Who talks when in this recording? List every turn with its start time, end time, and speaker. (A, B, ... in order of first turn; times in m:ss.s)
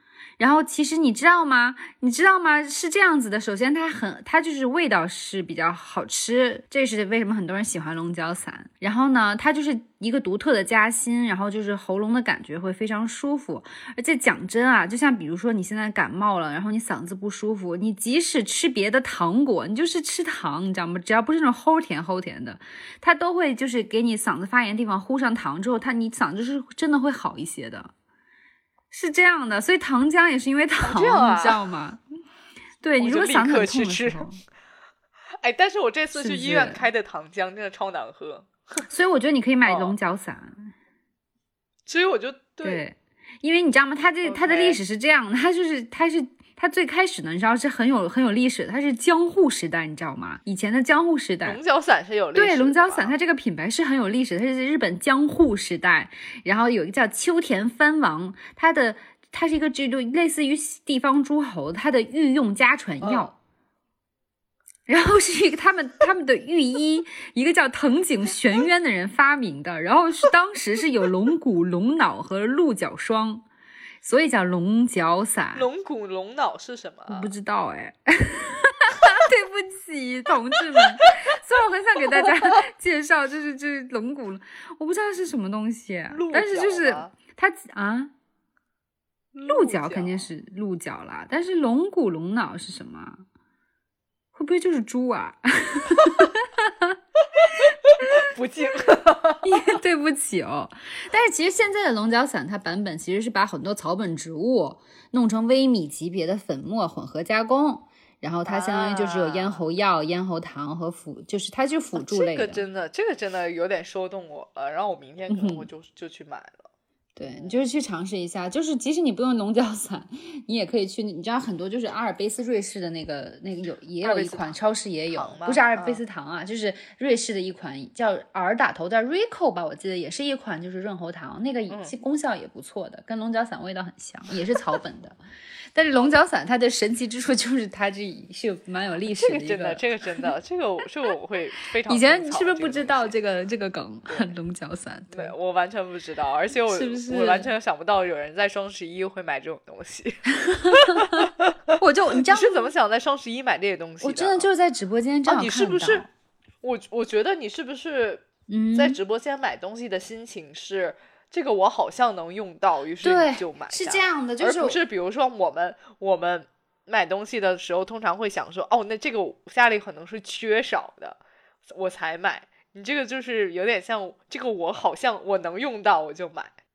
0:00.4-0:27.9 A
0:28.9-0:32.0 A
0:30.8-0:31.6 B
0:32.8-0:34.4 A
0:33.0-0:34.2 B
0:35.4-0:38.8 B
0:36.1-0:36.8 A
0:38.9-0:40.7 A
0:39.6-0:40.0 B
0:41.8-0:42.8 B
0:42.6-0:51.6 A
0:44.2-0:44.8 B
0:51.4-0:53.1 B
0:52.3-1:03.3 A
1:03.0-1:03.3 B
1:04.9-1:13.4 A
1:14.0-1:15.7 A
1:15.5-1:17.3 B
1:17.1-1:28.1 A
1:26.1-1:27.1 B
1:29.3-1:30.3 B
1:29.4-1:33.2 A
1:34.3-1:37.0 A
1:37.3-1:39.5 B
1:37.7-1:38.2 A
1:39.4-1:52.6 A
1:48.4-1:49.6 B
1:51.9-1:56.7 B
1:55.3-1:55.7 A
1:57.2-2:15.2 A
1:57.3-1:57.6 B
2:04.0-2:04.6 B
2:05.1-2:06.0 B
2:11.7-2:11.9 B
2:15.7-2:19.8 A
2:19.2-2:23.1 B
2:21.9-2:25.3 A
2:24.1-2:24.3 B
2:25.1-2:34.5 B
2:26.7-2:27.5 A
2:30.4-2:32.7 A
2:34.0-2:36.1 A
2:35.2-2:36.1 B
2:36.6-2:51.2 B
2:38.5-2:39.0 A
2:43.0-2:44.8 A
2:51.7-2:56.5 B